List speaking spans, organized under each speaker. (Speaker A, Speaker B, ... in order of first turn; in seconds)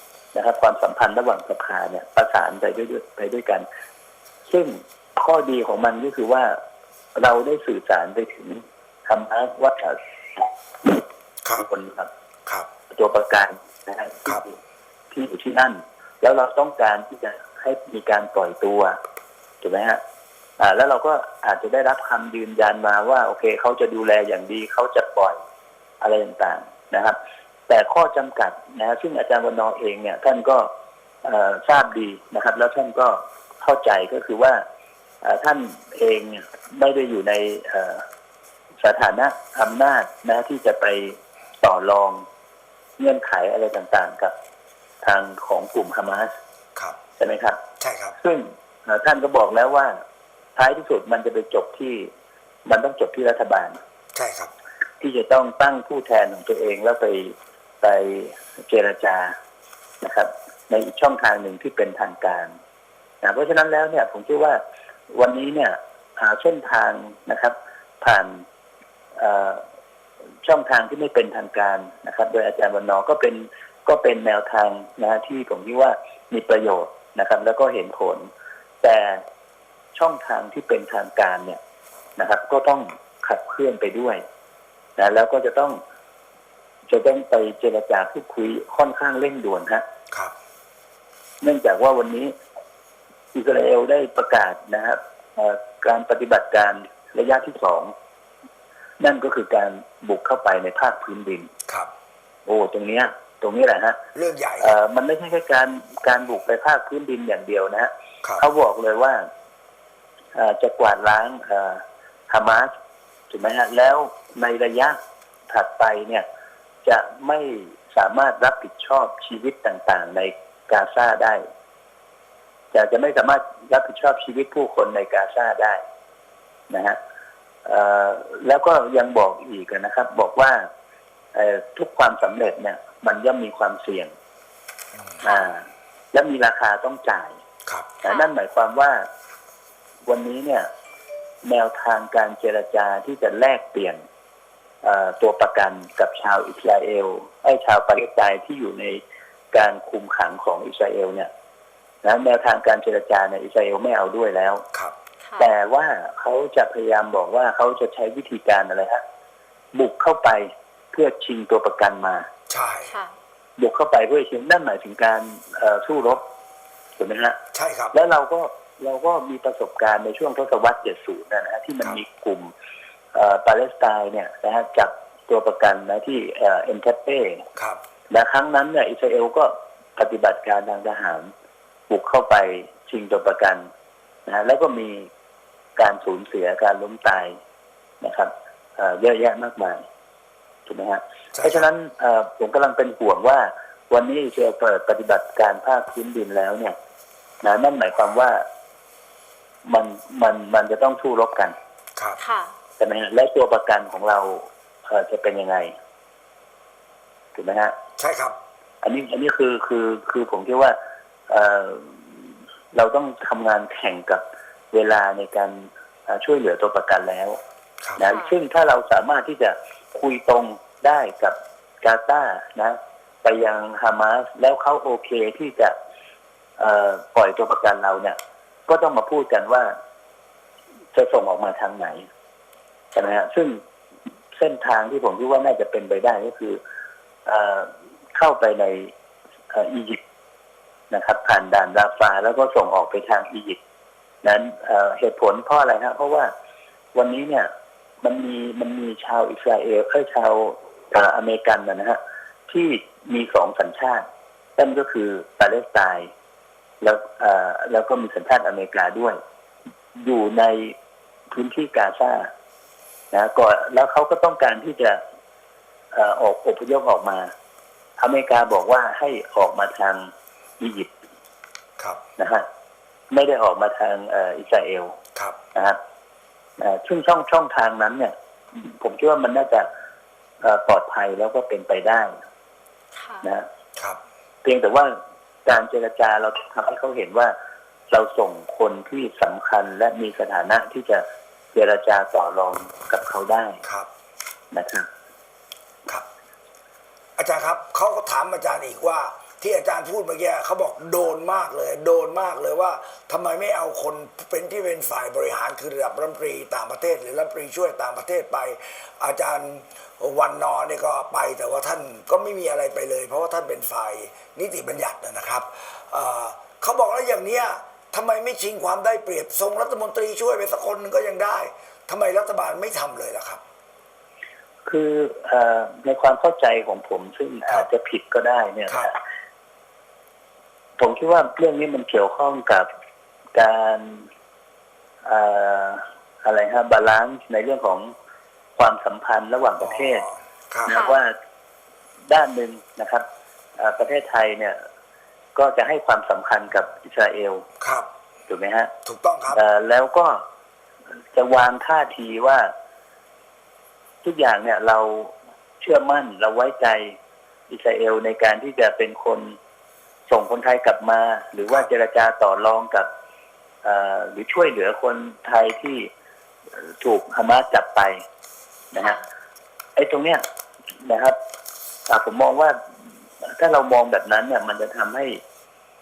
Speaker A: 0.3-3.6, 4.5-6.5, 7.2-11.0, 11.6-12.1, 12.9-14.5, 15.1-18.9, 19.6-20.0, 20.6-25.4, 26.0-27.1, 27.7-30.7, 31.2-34.6, 35.2-38.0, 38.8-42.2, 43.0-44.3, 45.0-46.3, 47.2-47.6, 48.2-49.9, 50.5-52.1, 52.6-53.8, 55.0-59.3, 60.0-62.5, 63.2-64.6, 65.1-68.4, 69.2-69.6, 70.4-78.3, 78.8-79.2, 79.9-81.6, 82.2-84.2, 85.0-85.8, 86.9-89.8, 91.4-92.3, 93.3-97.9, 99.0-101.5, 102.5-104.0, 104.6-109.2, 110.3-112.7, 113.3-115.0, 115.5-116.2, 116.8-121.4, 122.7-125.8, 126.7-127.0, 127.6-130.6, 131.3-134.1, 135.2-137.4, 138.0-139.1, 140.1-140.7, 141.4-144.0, 144.8-149.0, 149.5-151.3, 152.0-154.6, 155.4-159.0, 159.7-162.3, 163.6-166.2, 167.0-167.4, 167.9-172.5, 173.1-177.4, 178.1-181.3, 181.9-183.6, 184.2-185.1, 185.8-187.4, 188.0-189.8, 190.7-196.7, 197.4-198.4, 199.6-201.5, 202.8-205.7, 207.3-207.7, 208.8-210.8, 211.3-212.2, 212.7-217.4, 218.0-225.7, 226.6-228.2, 228.7-229.7, 230.9-232.1, 232.9-233.6, 234.4-236.6, 237.2-238.9, 239.5-240.0, 240.9-243.6, 244.2-246.3, 246.9-247.5, 248.0-254.0, 254.6-256.1, 256.8-259.2, 260.0-260.7, 261.3-262.3, 263.1-265.0, 265.9-267.3, 268.0-270.9, 272.2-272.4, 273.1-275.0, 275.5-275.8, 276.6-279.7, 280.4-282.1, 284.4-284.9, 285.4-287.3, 287.9-293.6, 294.5-294.9, 324.6-329.0, 330.8-332.7, 333.3-334.1, 335.0-337.9, 338.6-340.0, 340.7-341.1, 342.1-343.0, 343.6-344.6, 345.3-347.4, 348.3-348.7, 349.3-350.2, 351.1-352.5, 354.0-356.9, 357.5-359.4, 360.1-362.9, 363.6-365.9, 366.7-368.0, 368.7-369.0, 369.8-370.2, 370.8-371.1, 371.9-372.6, 373.2-375.2
Speaker B: 47.8-48.2, 54.1-54.5, 104.1-104.8, 134.9-135.2, 162.5-162.9, 167.5-167.9, 191.3-191.7, 208.0-208.3, 297.2-323.4, 339.6-340.8, 347.6-347.9, 348.8-349.4
Speaker C: 135.2-135.5, 138.0-138.3, 155.2-155.5, 162.8-163.2, 202.2-202.5, 218.0-218.3, 282.9-283.2, 340.7-341.0